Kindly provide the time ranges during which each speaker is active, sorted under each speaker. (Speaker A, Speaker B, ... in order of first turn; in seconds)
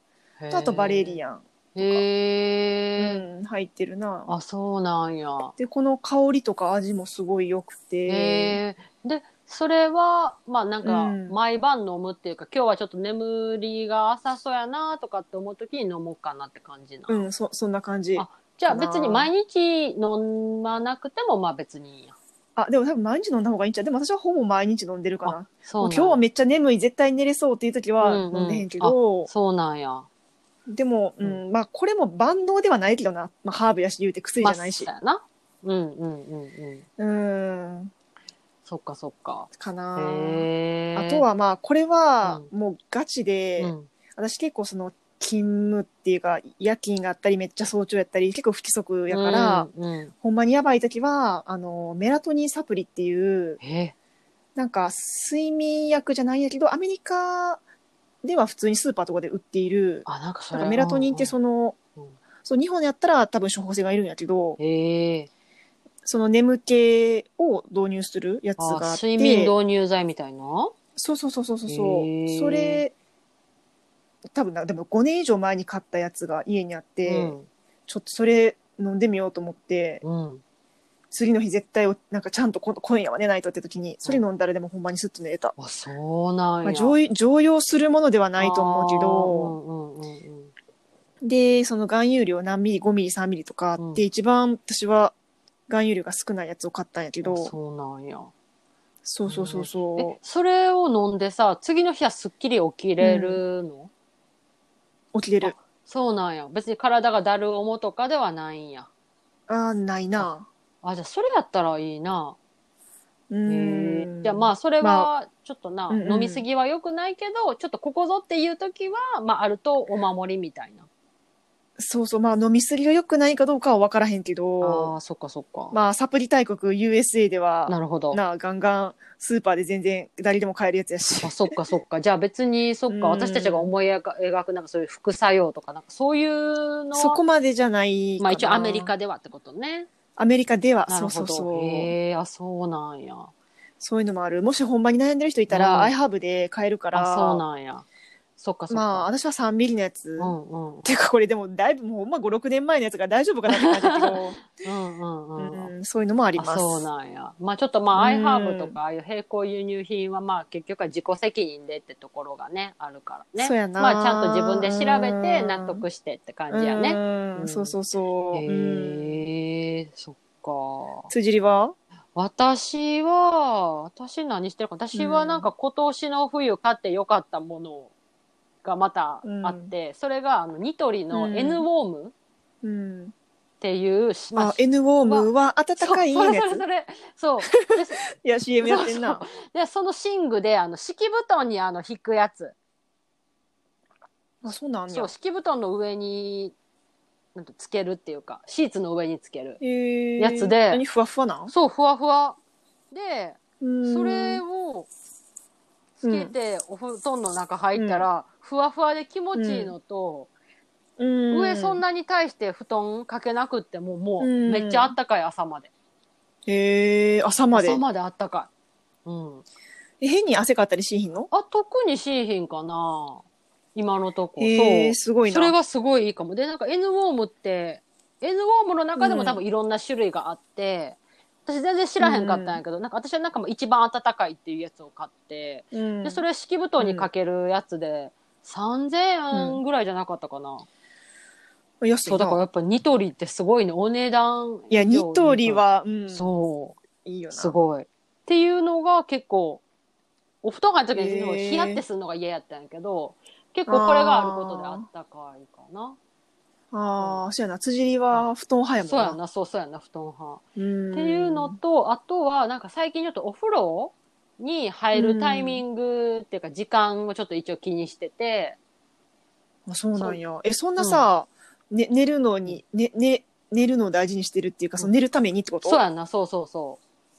Speaker A: 0.4-1.2, 1.7-3.2, 4.3-5.5, 8.1-17.2, 18.1-22.1, 25.2-26.2, 28.0-30.1, 34.4-36.9, 38.6-41.2, 43.6-43.9, 49.1-50.1, 53.6-53.9, 60.0-61.3, 64.6-65.3, 68.6-70.7, 71.7-72.8, 77.0-77.5, 80.0-80.4, 85.6-87.0, 88.4-90.5, 93.8-94.0, 97.2-98.3, 99.2-103.9, 105.4-108.9, 110.8-112.4, 113.5-120.9, 124.6-125.8, 127.7-128.2, 131.2-137.2, 138.2-139.9, 140.9-143.3, 145.5-145.9, 146.9-147.8, 148.4-149.1, 150.2-150.9, 153.5-155.7, 156.4-167.8, 168.3-171.1, 172.1-177.9, 178.6-182.1, 183.6-188.1, 188.6-192.5, 194.9-196.5, 197.3-199.6, 200.2-200.8, 201.5-202.4, 202.9-204.9, 206.0-210.3, 211.3-215.7, 217.5-218.5, 219.1-219.4, 221.3-223.2, 223.7-240.7, 242.0-246.8, 247.3-249.6, 250.4-256.0, 258.8-268.6, 270.8-271.1, 275.6-276.8
Speaker B: 0.5-2.0, 3.0-4.3, 5.6-8.6, 10.8-11.3, 17.1-19.3, 22.6-29.3, 30.7-34.9, 37.0-37.9, 39.6-49.7, 50.2-53.6, 54.5-57.6, 58.2-61.8, 62.4-64.6, 66.0-69.5, 71.0-72.9, 74.3-77.3, 77.9-80.0, 81.1-85.5, 86.6-89.5, 91.2-95.1, 95.7-97.5, 99.0-100.2, 103.0-103.4, 105.1-105.6, 109.5-110.5, 113.3-115.1, 115.9-116.4, 121.8-124.9, 125.7-131.4, 132.9-133.7, 136.9-138.9, 140.2-141.9, 143.8-147.4, 148.7-154.4, 155.4-156.8, 157.9-158.7, 163.4-165.8, 166.5-169.2, 171.1-171.8, 174.9-175.5, 179.2-179.7, 181.1-181.6, 182.6-183.1, 184.3-186.6, 187.5-189.2, 194.4-195.1, 199.6-201.5, 203.6-204.4, 206.0-206.3, 207.8-208.1, 209.3-209.7, 211.0-211.8, 214.2-214.9, 216.5-217.8, 220.0-221.3, 224.4-225.5, 229.0-229.4, 232.0-232.6, 235.7-236.2, 236.8-237.1, 239.3-239.6, 241.8-242.4, 244.7-246.3, 247.0-247.5, 250.9-251.8, 253.7-254.8, 256.7-259.2, 260.6-261.6, 264.9-265.6, 269.7-275.8